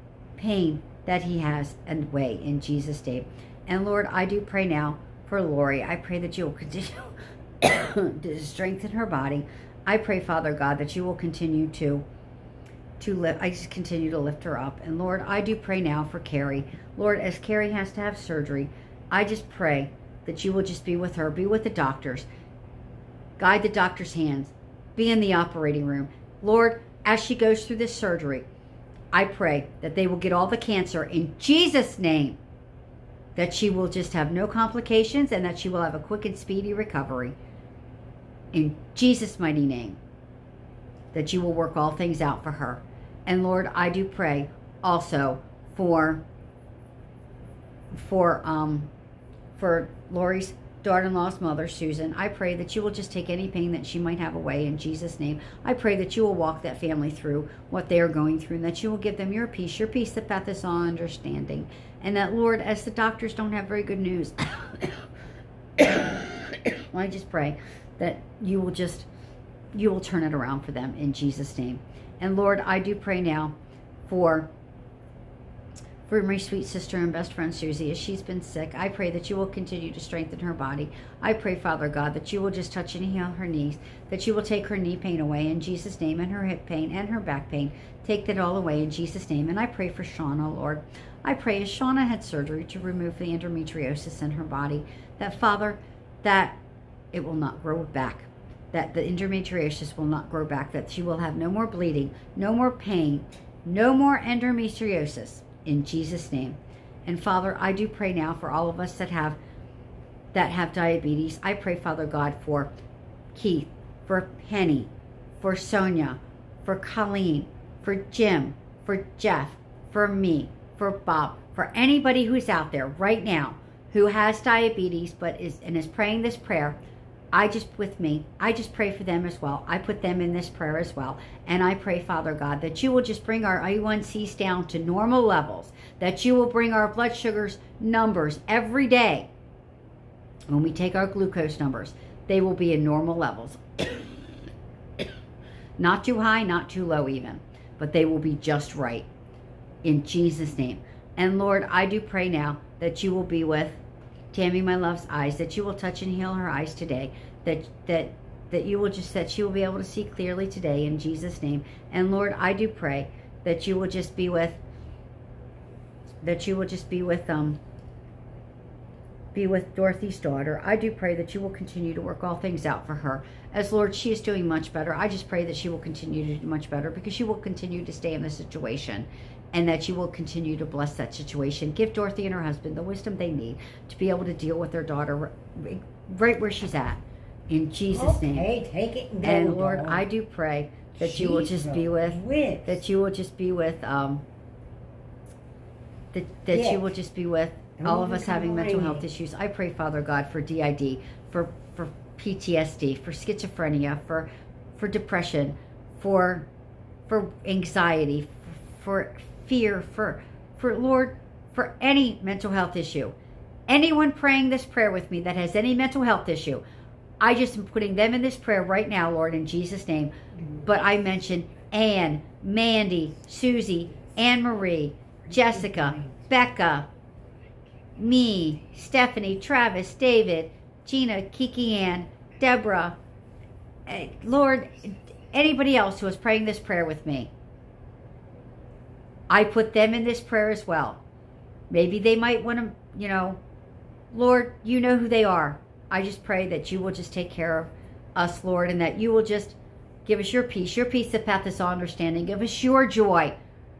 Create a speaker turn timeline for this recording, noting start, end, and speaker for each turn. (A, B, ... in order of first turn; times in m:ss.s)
0:00.4-0:12.0 A
0:13.0-0:22.3 A
0:23.4-0:28.5 A
0:29.1-0:32.4 A
0:33.4-0:37.4 A
0:38.5-0:40.0 A
0:41.1-0:46.2 A
0:47.9-0:48.9 A
0:49.6-1:05.0 A
1:05.8-1:09.1 A
1:09.7-1:13.6 A
1:14.1-1:14.5 A
1:16.1-1:36.6 A
1:37.1-1:49.4 A
1:50.3-1:52.7 A
1:53.4-2:06.8 A
2:07.3-2:19.3 A
2:20.5-2:24.2 A
2:25.8-2:29.1 A
2:29.8-2:33.8 A
2:34.3-2:44.6 A
2:46.2-2:47.6 A
2:49.3-3:08.5 A
3:07.9-3:10.0 B
3:09.2-3:14.2 A
3:11.0-3:12.8 B
3:16.1-3:26.5 A
3:16.5-3:16.9 B
3:17.8-3:19.0 B
3:27.1-3:33.2 A
3:33.7-3:36.6 A
3:37.2-3:40.1 A
3:40.3-3:40.7 B
3:40.6-3:46.9 A
3:45.2-3:46.3 B
3:48.0-3:53.0 A
3:53.9-3:57.3 A
3:59.3-4:01.0 A
4:01.7-4:03.4 A
4:04.1-4:13.4 A